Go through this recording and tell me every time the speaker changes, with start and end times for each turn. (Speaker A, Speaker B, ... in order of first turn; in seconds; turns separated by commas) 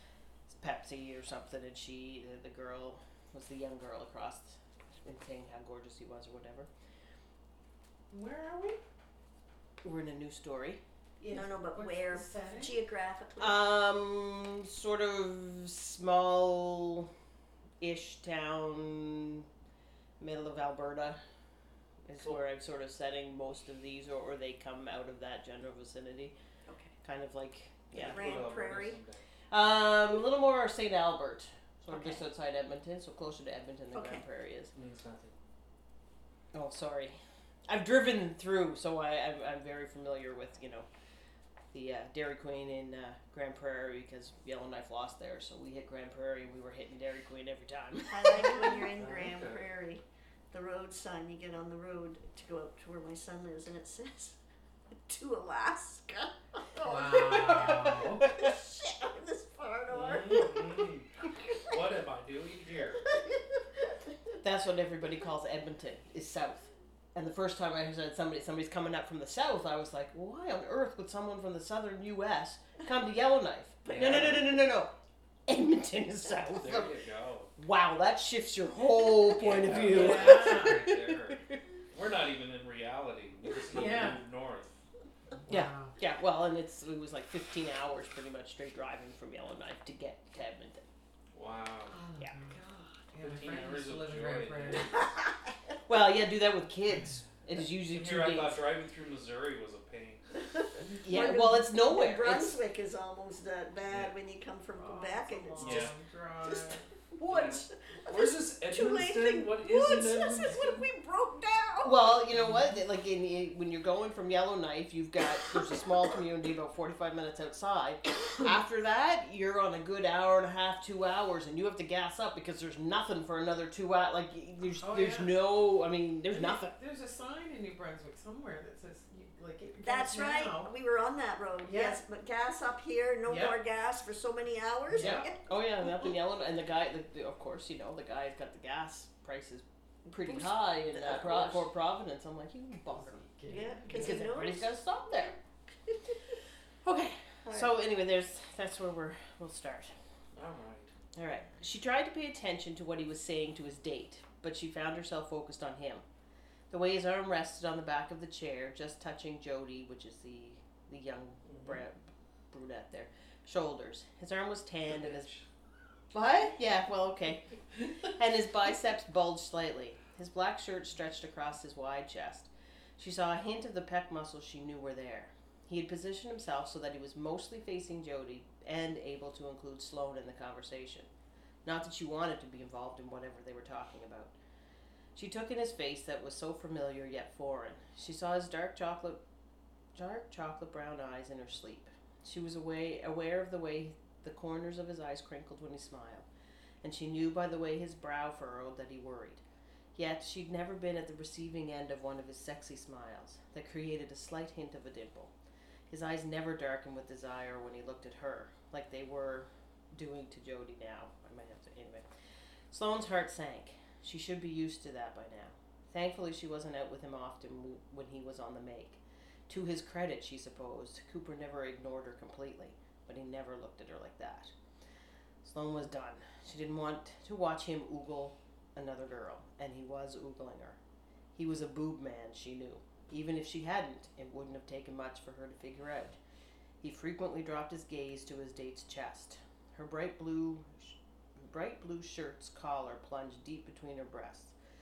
Speaker A: 0.5-6.7, Speaker B: 8.1-8.8, Speaker A: 9.8-10.8, Speaker B: 11.2-12.8, Speaker C: 11.3-13.7, Speaker A: 13.4-17.1, Speaker A: 17.8-19.5, Speaker A: 20.2-21.2, Speaker A: 22.1-26.4, Speaker C: 26.7-26.9, Speaker A: 27.0-28.4, Speaker D: 27.9-29.2, Speaker C: 28.0-29.0, Speaker A: 29.5-34.7, Speaker C: 31.9-32.2, Speaker C: 33.9-34.2, Speaker D: 34.7-35.3, Speaker A: 36.5-40.9, Speaker A: 41.7-48.9, Speaker C: 48.1-54.4, Speaker D: 49.0-49.6, Speaker C: 55.0-61.8, Speaker B: 56.8-58.3, Speaker A: 57.9-58.5, Speaker D: 59.9-63.0, Speaker C: 63.0-64.3, Speaker A: 64.4-74.9, Speaker C: 73.9-74.3, Speaker D: 73.9-74.5, Speaker A: 75.5-76.9, Speaker D: 76.5-77.5, Speaker A: 77.6-81.6, Speaker D: 79.3-84.7, Speaker B: 79.8-80.9, Speaker B: 83.7-84.2, Speaker B: 85.4-86.0, Speaker A: 85.5-90.9, Speaker D: 91.3-92.0, Speaker B: 91.9-92.6, Speaker C: 92.6-93.0, Speaker B: 93.1-95.0, Speaker D: 93.2-95.0, Speaker A: 95.9-98.6, Speaker D: 97.9-100.2, Speaker C: 100.6-105.9, Speaker B: 100.8-101.4, Speaker A: 101.0-102.6, Speaker D: 103.9-104.1, Speaker B: 104.8-106.9, Speaker D: 105.6-105.9, Speaker C: 106.4-112.1, Speaker D: 107.2-110.7, Speaker A: 111.8-126.8, Speaker B: 112.3-112.8, Speaker B: 124.8-125.4, Speaker B: 126.3-130.7, Speaker C: 129.8-135.4, Speaker B: 131.6-132.0, Speaker B: 133.3-133.6, Speaker B: 134.9-135.3, Speaker A: 135.0-143.2, Speaker C: 140.2-141.6, Speaker B: 142.9-144.3, Speaker C: 143.5-145.3, Speaker A: 143.9-145.4, Speaker C: 145.9-146.2, Speaker A: 146.8-149.9, Speaker C: 147.4-147.8, Speaker D: 150.3-150.9, Speaker A: 151.2-156.0, Speaker A: 156.7-165.3, Speaker D: 161.5-161.8, Speaker D: 164.9-165.4, Speaker A: 166.1-181.1, Speaker A: 181.7-184.3, Speaker A: 185.2-189.2, Speaker A: 189.9-196.3, Speaker A: 196.8-199.4, Speaker A: 199.9-205.3, Speaker A: 205.9-212.1, Speaker A: 212.7-224.5, Speaker A: 225.4-230.8, Speaker A: 231.4-236.2, Speaker A: 236.8-244.5